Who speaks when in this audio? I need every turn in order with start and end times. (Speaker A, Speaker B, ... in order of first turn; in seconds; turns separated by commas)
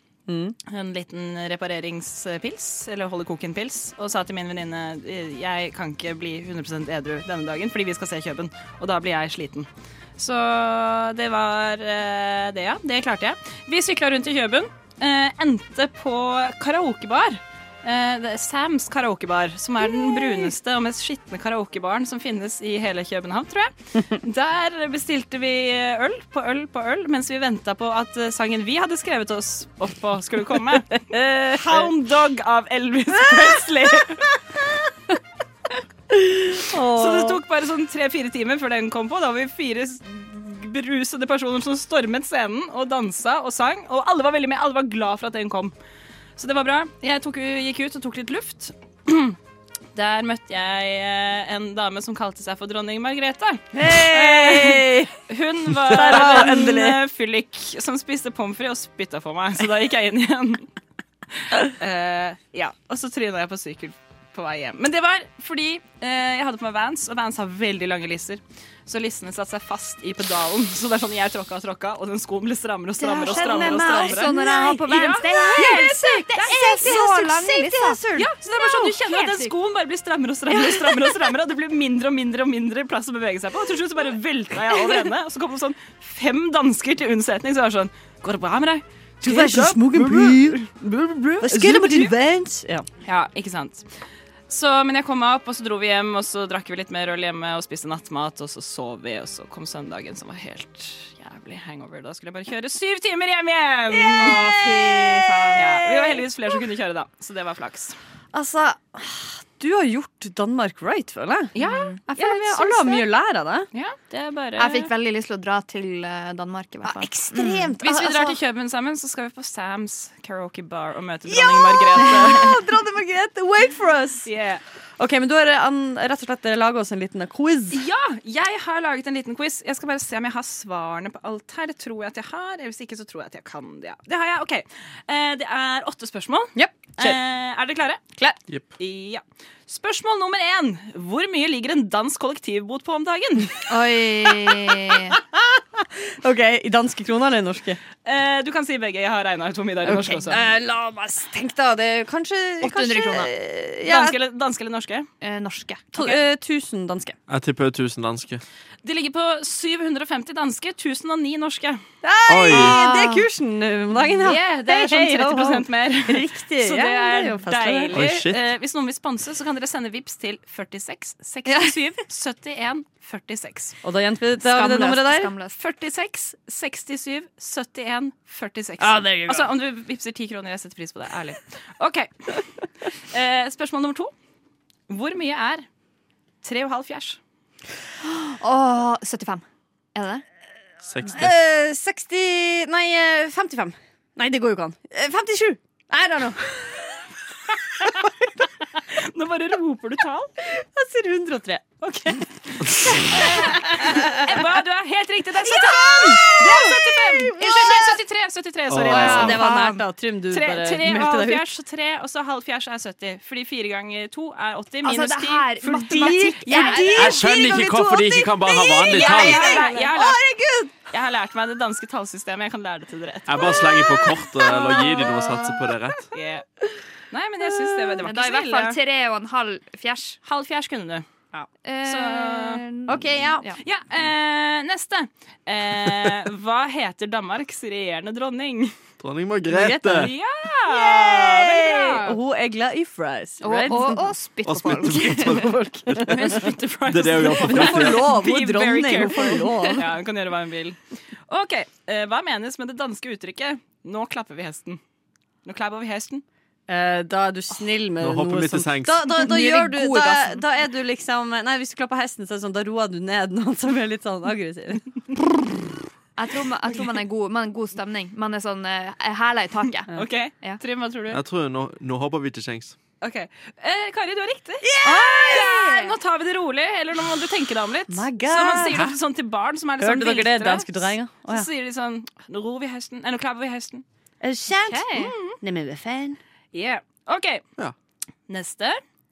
Speaker A: 0.3-0.6, Speaker B: 0.7-34.2, Speaker A: 30.9-31.9, Speaker A: 36.1-37.4, Speaker B: 36.8-45.7, Speaker B: 46.4-49.4, Speaker B: 49.9-60.7, Speaker A: 53.7-55.1, Speaker A: 55.9-57.0, Speaker B: 61.5-76.2, Speaker C: 73.0-78.0, Speaker A: 73.2-78.3, Speaker B: 78.1-90.7, Speaker C: 78.6-79.5, Speaker A: 80.5-81.2, Speaker A: 89.2-92.9, Speaker B: 91.4-92.1, Speaker B: 93.0-93.8, Speaker B: 94.5-104.5, Speaker A: 103.9-106.2, Speaker C: 104.2-105.9, Speaker B: 105.5-108.0, Speaker A: 108.3-111.5, Speaker B: 111.5-112.0, Speaker C: 111.6-113.1, Speaker A: 112.2-113.7, Speaker B: 113.7-114.9, Speaker C: 114.6-117.8, Speaker A: 116.8-118.3, Speaker B: 117.8-122.5, Speaker C: 121.4-122.5, Speaker A: 121.9-124.3, Speaker B: 124.2-124.6, Speaker A: 125.0-127.8, Speaker B: 127.7-138.0, Speaker A: 136.5-137.2, Speaker B: 138.8-143.6, Speaker C: 143.7-145.2, Speaker A: 145.2-147.8, Speaker B: 148.0-150.4, Speaker A: 149.8-154.1, Speaker C: 149.9-150.4, Speaker C: 152.6-153.3, Speaker B: 153.8-155.1, Speaker C: 155.2-156.2, Speaker A: 155.9-157.2, Speaker D: 157.3-158.4, Speaker B: 158.8-161.8, Speaker A: 162.0-168.0, Speaker D: 162.3-162.8, Speaker C: 162.6-163.1, Speaker B: 164.2-173.7, Speaker D: 167.9-168.4, Speaker A: 173.8-175.3, Speaker C: 174.4-175.6, Speaker B: 175.6-184.1, Speaker A: 178.8-179.5, Speaker B: 184.9-185.6, Speaker B: 186.4-187.2, Speaker C: 188.1-189.4, Speaker C: 189.9-190.2, Speaker D: 190.8-191.3, Speaker A: 191.1-197.0, Speaker B: 198.9-200.3, Speaker A: 200.5-201.8, Speaker B: 201.8-209.7, Speaker A: 203.1-204.4, Speaker A: 205.4-208.0, Speaker D: 208.7-209.4, Speaker A: 208.9-211.4, Speaker C: 208.9-209.8, Speaker B: 210.3-217.0, Speaker C: 214.8-220.2, Speaker A: 215.9-220.7, Speaker D: 216.9-219.6, Speaker B: 218.9-220.3, Speaker B: 220.9-223.7, Speaker D: 223.3-226.1, Speaker A: 223.6-225.2, Speaker B: 226.1-226.4, Speaker B: 227.1-228.8, Speaker C: 228.0-230.2, Speaker B: 230.2-232.6, Speaker C: 231.6-233.6, Speaker A: 232.9-233.5, Speaker B: 233.6-238.7, Speaker D: 239.0-240.1, Speaker A: 239.5-240.1, Speaker B: 239.9-242.2, Speaker A: 240.7-244.1, Speaker C: 243.4-245.5, Speaker D: 244.4-248.1, Speaker A: 245.9-246.4, Speaker B: 246.1-254.8, Speaker A: 247.2-249.9, Speaker B: 255.4-256.2, Speaker A: 256.7-265.4, Speaker D: 258.0-259.1, Speaker C: 259.1-260.4, Speaker C: 266.1-270.6, Speaker B: 269.9-271.2, Speaker D: 271.1-272.8, Speaker B: 273.0-283.8, Speaker A: 274.6-275.5, Speaker C: 274.8-275.9, Speaker A: 277.9-278.8, Speaker A: 279.8-281.5, Speaker A: 284.2-286.2, Speaker C: 284.6-285.1, Speaker B: 284.9-285.4, Speaker B: 286.5-287.4, Speaker B: 288.3-288.8